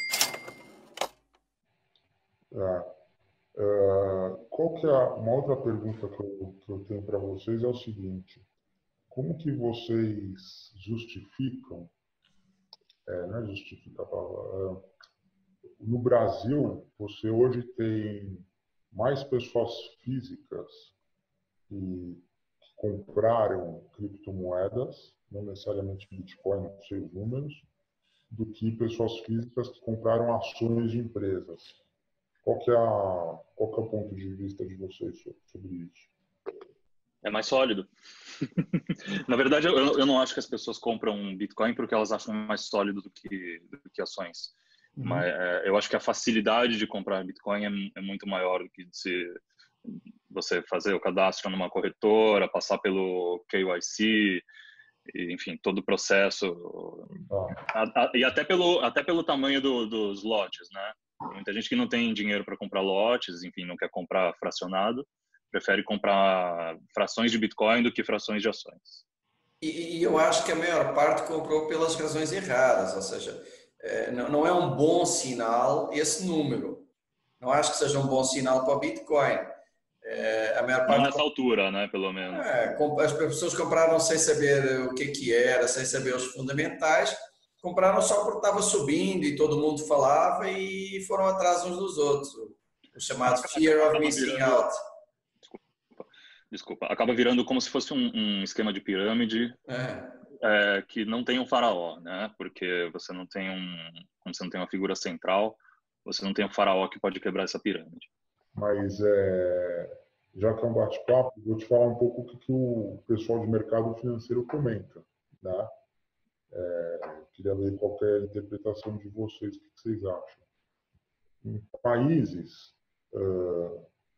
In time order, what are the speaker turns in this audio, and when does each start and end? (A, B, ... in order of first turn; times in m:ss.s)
0:02.5-0:02.9 A
0:03.6-0:08.5 A
0:09.1-0:11.9 A
0:13.1-0:14.9 A
0:15.8-0:20.9 A
0:21.7-0:27.7 A
0:28.3-0:31.8 A
0:32.4-0:36.1 A
0:37.2-0:37.9 B
0:38.4-0:49.3 B
0:50.3-0:54.4 B
0:55.1-0:57.1 B
0:57.3-0:57.6 A
0:57.7-1:09.0 B
1:09.6-1:16.9 C
1:17.4-1:19.5 C
1:20.0-1:21.2 C
1:20.9-1:22.4 B
1:22.3-1:34.8 C
1:33.2-1:34.7 B
1:35.4-1:39.6 B
1:39.7-1:40.2 C
1:40.4-1:48.1 B
1:48.5-1:55.7 A
1:56.5-2:00.4 A
2:01.4-2:03.9 A